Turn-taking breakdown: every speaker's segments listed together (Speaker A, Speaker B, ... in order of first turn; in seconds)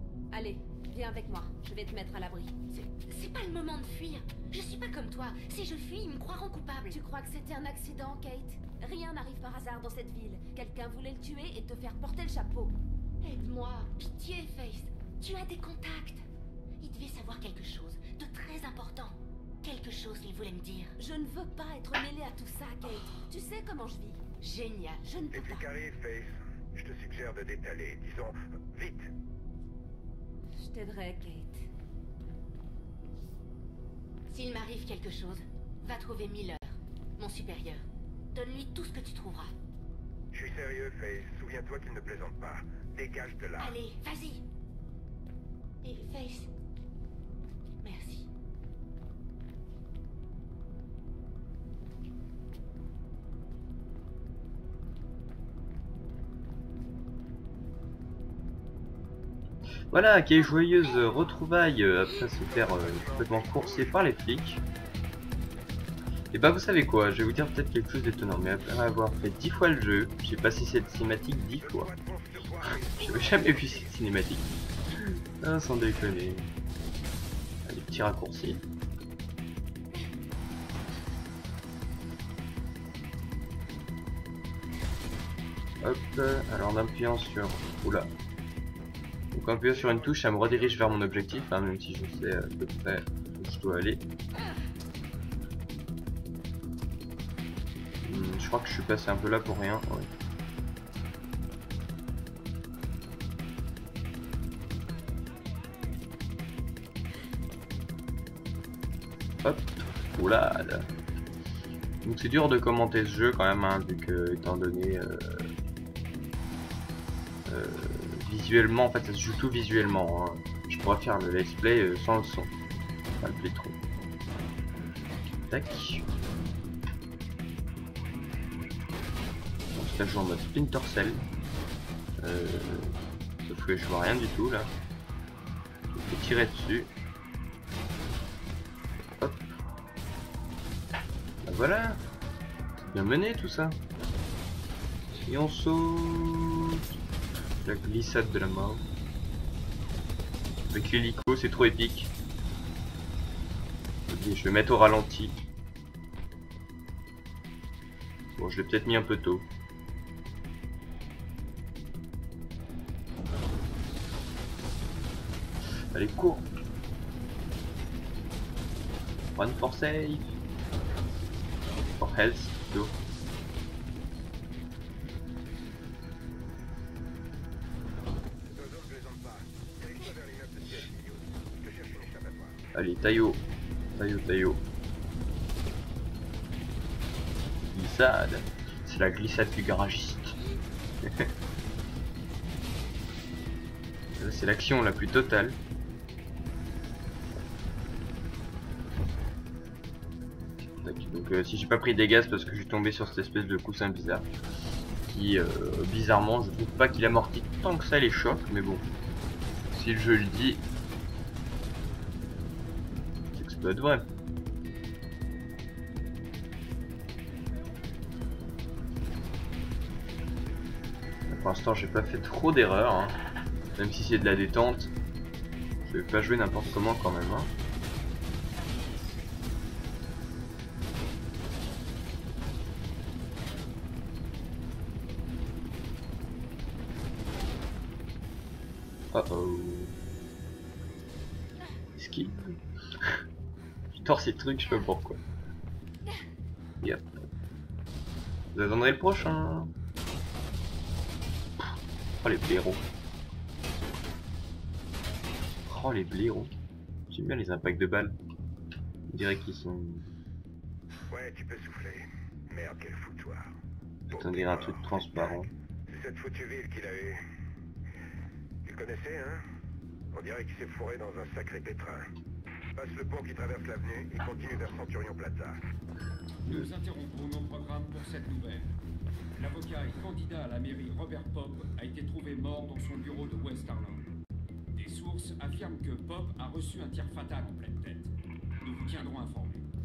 Speaker A: 0.3-2.5, 6.9-12.8, 21.0-24.2, 25.1-25.7, 30.6-31.7
Speaker B: 2.7-7.0, 13.2-16.2, 16.8-21.0, 22.9-23.2, 24.4-25.2, 34.3-39.5, 43.6-44.4, 45.8-46.5, 47.8-48.3
Speaker C: 25.3-29.1, 40.3-43.7, 62.5-64.0, 71.6-73.9, 178.5-182.6, 261.1-263.6, 264.1-265.3, 265.9-267.2, 268.6-269.4, 270.1-272.1, 272.8-275.6
Speaker D: 59.9-64.6, 66.3-71.9, 73.0-74.5, 75.4-76.5, 77.7-78.6, 85.8-88.1, 89.3-94.0, 98.0-100.1, 109.4-110.9, 112.0-115.5, 117.5-122.5, 123.2-123.8, 125.5-126.0, 129.7-131.2, 132.2-134.7, 135.9-136.9, 139.2-139.4, 141.4-142.0, 142.8-143.8, 145.3-146.8, 147.7-148.8, 150.7-152.1, 154.1-155.4, 158.4-159.5, 165.9-166.5, 169.4-170.3, 171.9-173.0, 182.8-183.4, 184.0-184.6, 187.7-190.4, 194.2-195.6, 200.8-204.3, 205.1-208.8, 209.7-210.6, 213.3-214.1, 221.3-223.2, 223.8-224.9, 225.8-227.5, 239.1-239.9, 242.0-243.2, 243.9-245.2, 246.8-247.1, 248.5-249.7, 252.2-252.8, 255.7-256.5, 257.1-258.2, 259.1-260.2, 264.1-265.5
Speaker E: 276.4-278.8, 279.4-284.1, 284.7-289.7